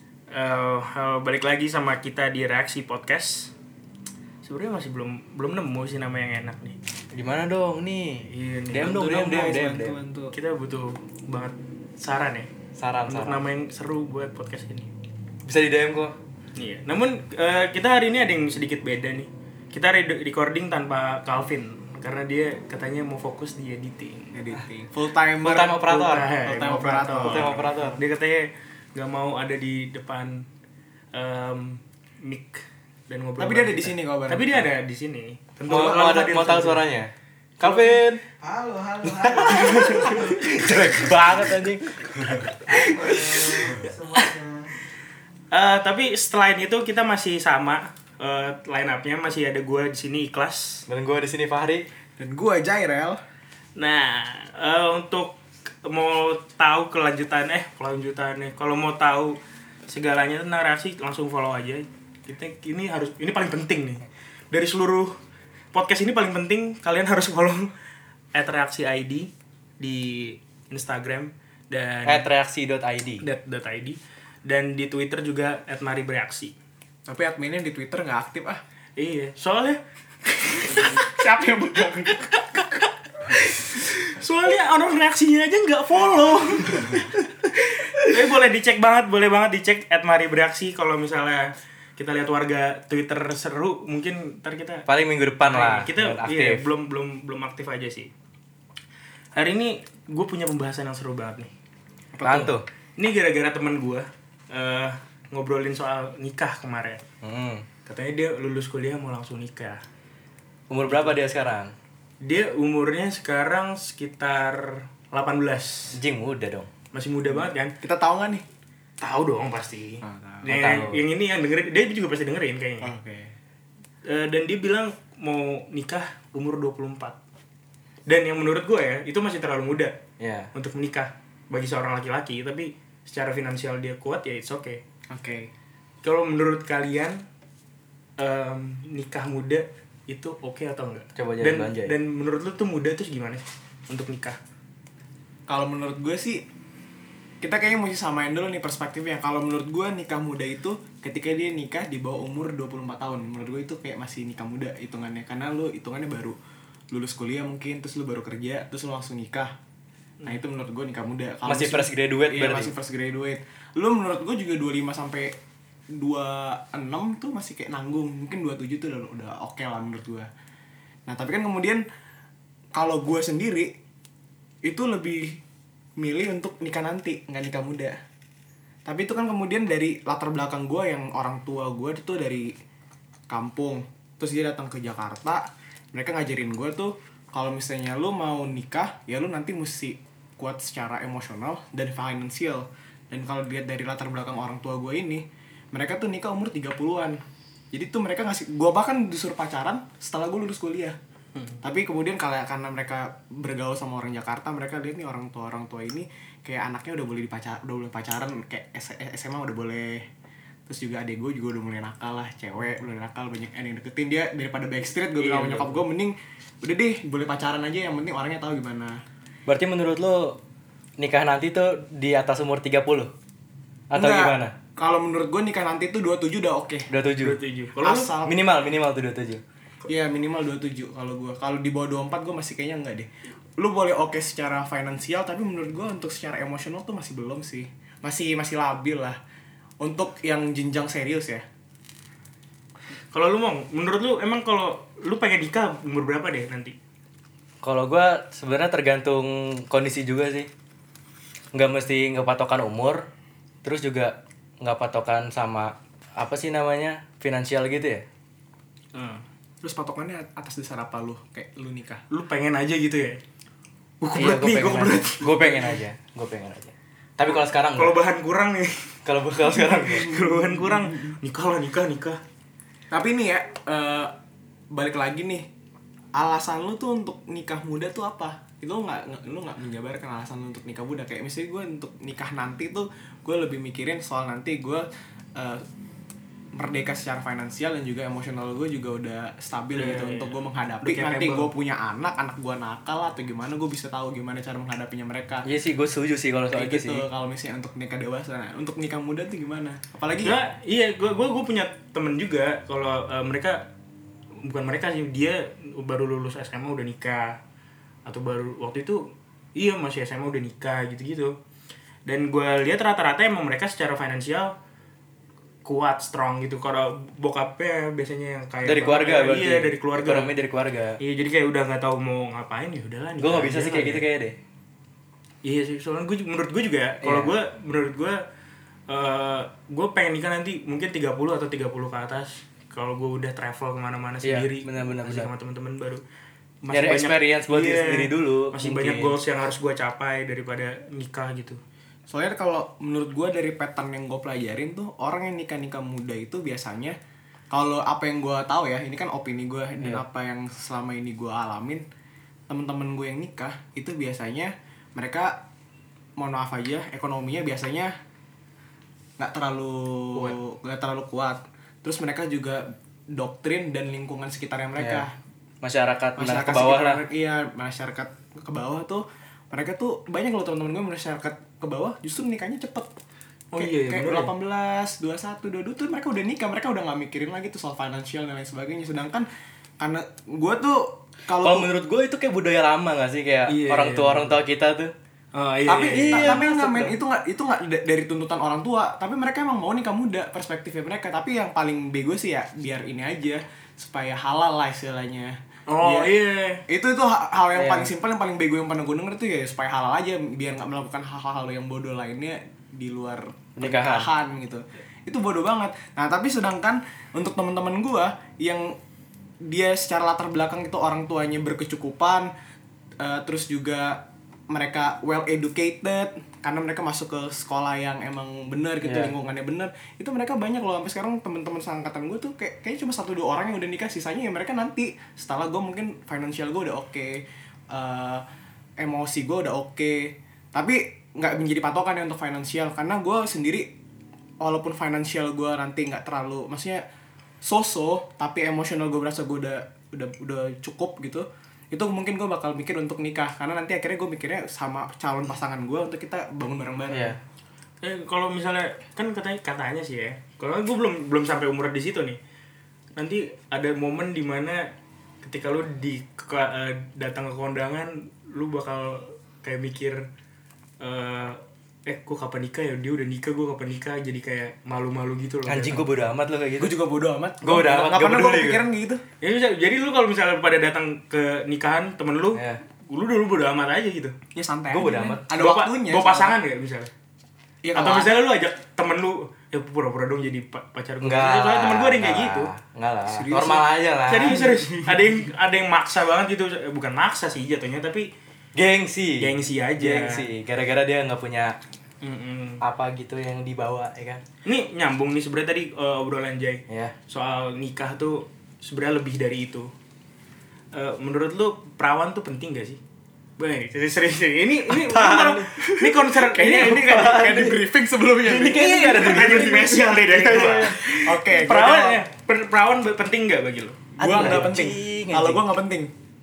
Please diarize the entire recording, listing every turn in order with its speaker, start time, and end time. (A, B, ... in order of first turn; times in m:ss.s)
0:00.3-0:03.5 A
0:04.4-0:06.8 A
0:07.1-0:10.0 B
0:08.3-0:08.9 A
0:08.8-0:10.4 C
0:10.3-0:12.5 A
0:12.8-0:13.4 B
0:13.1-0:14.9 A
0:15.4-0:16.2 B
0:16.5-0:24.5 A
0:24.3-0:28.0 C
0:25.4-0:26.3 B
0:25.8-0:30.4 A
0:27.2-0:28.0 B
0:31.1-0:36.8 A
0:33.4-0:34.7 C
0:35.7-0:38.2 B
0:35.7-0:36.1 C
0:37.6-0:41.1 C
0:39.1-0:44.3 B
0:39.8-0:40.3 A
0:42.7-0:43.5 A
0:42.9-0:44.4 C
0:45.5-0:50.8 A
0:50.9-0:51.9 B
0:52.2-0:53.2 C
0:53.8-0:55.3 A
0:55.8-1:05.1 A
1:05.7-1:07.7 A
1:08.3-1:12.3 A
1:12.0-1:13.2 B
1:13.2-1:16.5 A
1:17.1-1:18.6 C
1:19.0-1:21.0 A
1:20.7-1:22.4 C
1:23.3-1:34.8 A
1:34.9-1:36.7 B
1:35.4-1:38.1 A
1:39.3-1:41.5 A
1:42.1-1:42.6 C
1:42.2-1:42.6 B
1:43.0-1:47.0 A
1:47.2-1:47.6 B
1:47.8-1:49.8 A
1:50.7-1:51.7 B
1:50.8-1:51.2 A
1:52.2-1:56.0 A
1:55.9-1:56.7 B
1:56.9-1:57.7 A
1:57.3-1:58.4 C
1:59.0-2:02.9 A
2:00.0-2:00.4 C
2:00.4-2:01.0 B
2:02.8-2:03.3 C
2:04.1-2:07.1 A
2:08.1-2:09.9 A
2:10.2-2:10.5 B
2:10.5-2:14.8 A
2:15.1-2:15.5 C
2:16.0-2:17.2 A
2:18.2-2:24.4 A
2:21.2-2:22.0 B
2:25.5-2:26.4 C
2:27.4-2:36.4 C
2:36.9-2:39.5 C
2:40.2-2:45.3 C
2:41.4-2:42.7 B
2:45.9-2:50.3 C
2:51.1-2:51.8 C
2:52.7-2:53.7 C
2:54.6-2:55.4 C
2:56.0-2:58.0 C
2:58.8-3:02.5 C
3:03.3-3:17.2 C
3:17.7-3:21.0 C
3:21.6-3:30.0 C
3:30.7-3:39.0 C
3:35.2-3:35.8 B
3:39.5-3:40.4 B
3:41.0-3:43.1 B
3:43.9-3:44.5 B
3:43.9-3:46.9 C
3:46.9-3:47.4 B
3:47.2-3:48.1 A
3:47.8-3:48.3 C
3:48.2-3:49.4 B
3:49.9-3:59.2 C
3:59.8-4:01.4 C
4:03.1-4:06.7 A
4:07.6-4:10.5 B
4:11.5-4:13.1 B
4:13.6-4:18.0 B
4:18.9-4:19.2 A
4:19.6-4:22.0 C
4:22.1-4:23.2 A
4:24.0-4:25.7 A
4:24.1-4:28.0 B
4:27.3-4:28.7 A
4:29.0-4:30.1 B
4:29.6-4:31.1 C
4:29.8-4:32.2 A
4:32.9-4:34.1 C
4:34.7-4:35.5 C
4:36.1-4:45.6 C
4:46.6-4:55.4 C
4:49.7-4:51.5 A
4:55.4-4:57.0 B
4:56.5-5:00.4 C
5:00.2-5:03.6 A
5:04.4-5:07.4 A
5:08.0-5:09.0 A
5:09.6-5:11.3 A
5:12.0-5:14.5 A
5:15.6-5:20.3 A
5:18.6-5:21.0 B
5:21.0-5:24.0 A
5:23.2-5:24.4 B
5:25.4-5:28.2 A
5:27.0-5:27.3 B
5:28.9-5:36.0 A
5:34.2-5:35.3 B
5:36.6-5:41.6 A
5:36.7-5:39.2 B
5:42.1-5:47.0 C
5:47.5-5:51.8 C
5:52.5-5:55.4 C
5:56.2-5:57.9 C
5:59.2-6:05.1 C
6:04.8-6:05.0 B
6:05.6-6:07.0 B
6:06.2-6:12.9 C
6:13.5-6:14.3 A
6:13.6-6:19.3 C
6:19.8-6:21.7 C
6:21.3-6:24.9 B
6:23.5-6:24.4 A
6:25.3-6:26.5 A
6:25.7-6:36.1 C
6:25.8-6:26.9 B
6:35.7-6:36.6 A
6:36.7-6:48.8 C
6:37.5-6:37.9 B
6:43.6-6:44.1 B
6:49.4-6:52.3 C
6:53.0-7:08.2 C
6:58.8-6:59.1 B
7:08.8-7:13.7 C
7:14.4-7:16.8 C
7:17.4-7:27.2 C
7:26.9-7:27.2 B
7:27.8-7:32.2 A
7:33.0-7:34.6 A
7:35.2-7:40.0 A
7:40.8-7:45.9 A
7:45.4-7:46.7 B
7:46.6-7:49.0 C
7:47.4-7:48.6 B
7:49.2-7:54.1 A
7:54.3-7:56.4 C
7:54.7-7:55.2 B
7:54.9-7:56.9 A
7:57.6-7:58.2 C
7:57.7-8:02.5 A
8:01.0-8:04.4 B
8:03.0-8:05.0 C
8:04.1-8:08.1 A
8:08.5-8:11.6 B
8:09.2-8:10.3 A
8:12.0-8:12.6 A
8:12.6-8:14.2 B
8:14.4-8:19.7 A
8:16.7-8:16.9 B
8:20.7-8:22.8 A
8:23.4-8:27.3 A
8:24.6-8:27.6 B
8:26.2-8:30.0 C
8:28.2-8:30.8 B
8:28.2-8:34.5 A
8:30.6-8:32.0 C
8:34.0-8:35.4 B
8:34.0-8:35.9 C